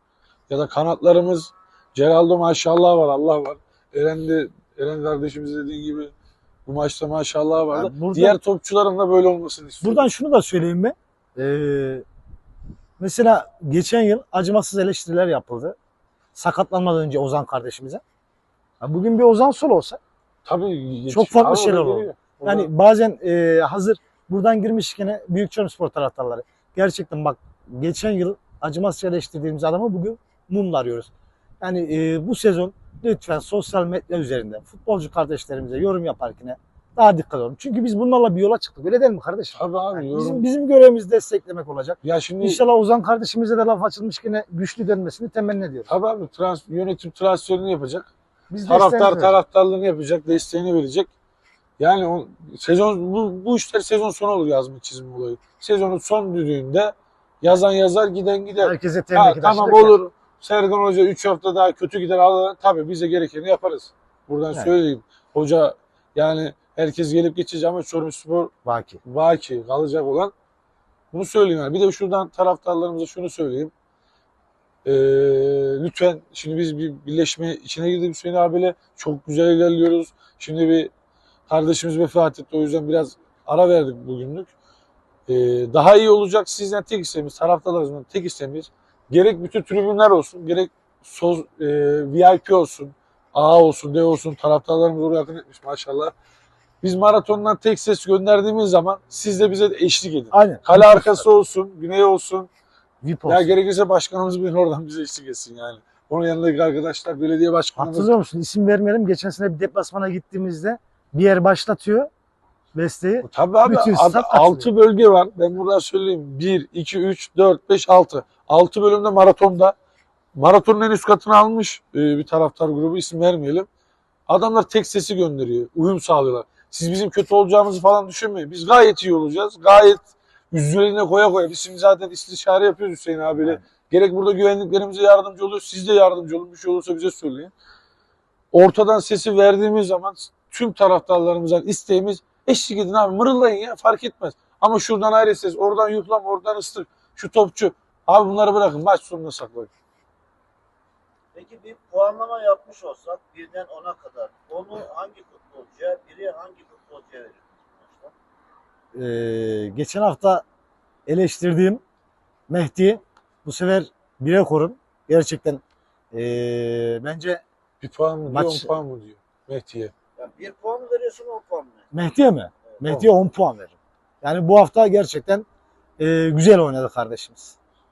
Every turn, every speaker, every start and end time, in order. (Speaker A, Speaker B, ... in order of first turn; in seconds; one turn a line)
Speaker A: 0.5-6.1
Speaker A: 6.7-10.1
Speaker B: 7.7-8.4
Speaker B: 9.8-12.0
Speaker B: 13.0-15.8
Speaker B: 16.3-18.0
Speaker B: 18.8-20.0
Speaker A: 20.4-22.7
Speaker B: 21.1-31.1
Speaker B: 31.6-45.9
Speaker A: 39.5-40.4
Speaker A: 42.0-42.6
Speaker A: 45.9-48.1
Speaker B: 48.5-49.4
Speaker A: 48.6-51.1
Speaker A: 51.8-68.5
Speaker B: 58.6-60.0
Speaker B: 68.6-69.0
Speaker A: 69.0-70.3
Speaker A: 71.1-73.7
Speaker A: 74.8-80.9
Speaker A: 81.5-84.5
Speaker A: 85.3-96.1
Speaker A: 96.8-102.5
Speaker B: 100.3-101.3
Speaker B: 103.0-103.5
Speaker A: 103.3-108.1
Speaker B: 107.8-112.1
Speaker B: 112.7-114.7
Speaker A: 113.2-119.7
Speaker A: 120.3-123.7
Speaker A: 124.3-137.5
Speaker A: 138.5-149.7
Speaker C: 151.3-158.1
Speaker B: 158.9-160.4
Speaker B: 161.1-161.8
Speaker B: 162.5-167.4
Speaker A: 167.8-169.9
Speaker B: 168.3-168.7
Speaker C: 170.2-171.9
Speaker B: 171.9-175.4
Speaker B: 176.0-177.6